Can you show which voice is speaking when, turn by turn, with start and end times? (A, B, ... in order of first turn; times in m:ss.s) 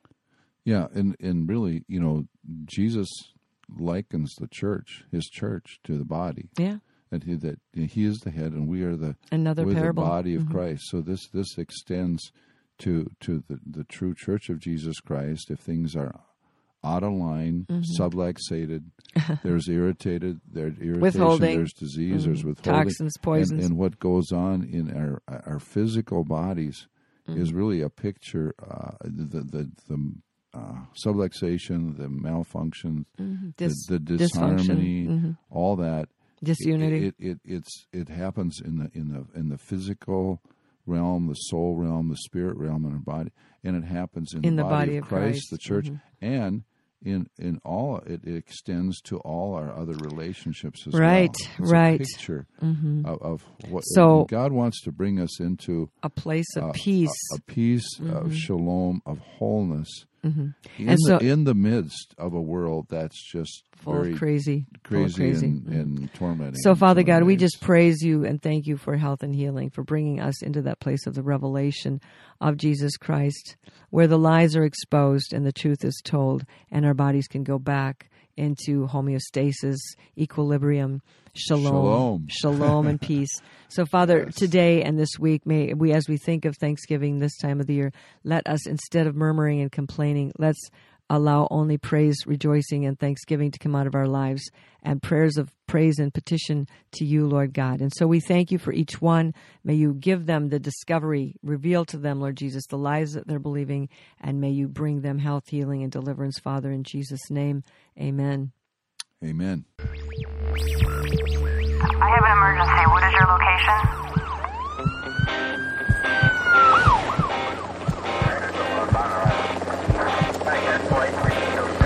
0:00.6-0:06.6 A
0:06.6-0:06.8 B
0:07.1-0:16.3 A
0:09.3-0:10.6 B
0:16.8-0:33.1 A
0:17.7-0:18.0 B
0:21.0-0:23.7 B
0:33.2-0:35.4 B
0:33.6-0:52.5 A
0:36.4-0:37.1 B
0:44.4-0:46.0 B
0:50.9-0:53.1 B
0:53.0-0:55.9 A
0:53.8-0:54.3 B
0:56.0-0:57.4 B
0:56.6-1:00.1 A
0:58.0-0:58.5 B
1:00.2-1:01.2 B
1:00.7-1:07.6 A
1:03.8-1:05.9 B
1:06.6-1:48.5 B
1:21.5-1:23.0 A
1:49.2-1:49.7 A
1:52.0-1:54.0 C